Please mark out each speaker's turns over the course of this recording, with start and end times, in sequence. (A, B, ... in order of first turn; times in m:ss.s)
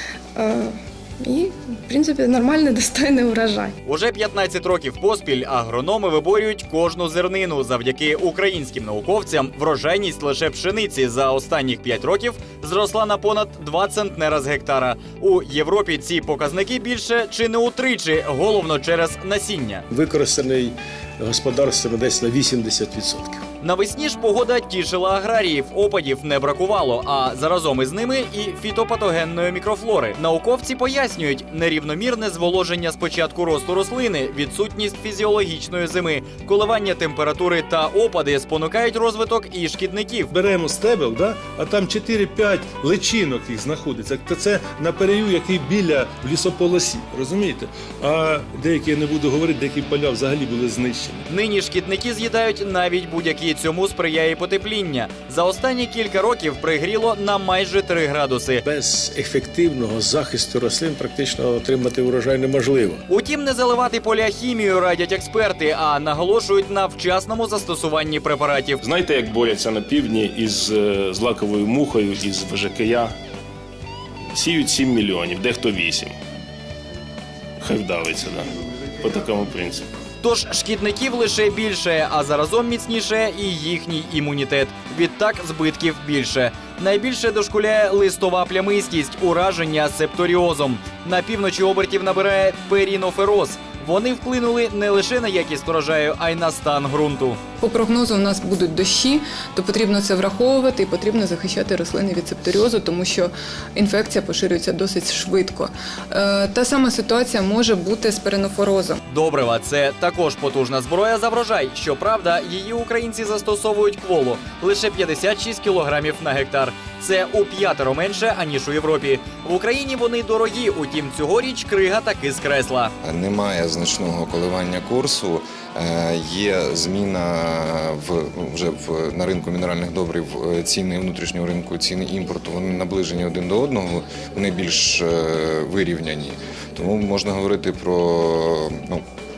0:00.4-0:03.7 A
0:03.8-0:19.8 B
0:23.6-0:40.3 B
0:40.3-0:51.2 C
0:51.3-0:58.6 B
1:03.1-1:08.8 B
1:08.8-1:13.1 D
1:14.3-1:16.2 D
1:17.6-1:18.5 D
1:19.0-1:19.8 D
1:20.2-1:37.4 B
1:37.6-1:49.0 E
1:49.1-2:02.9 B
2:03.0-2:19.0 F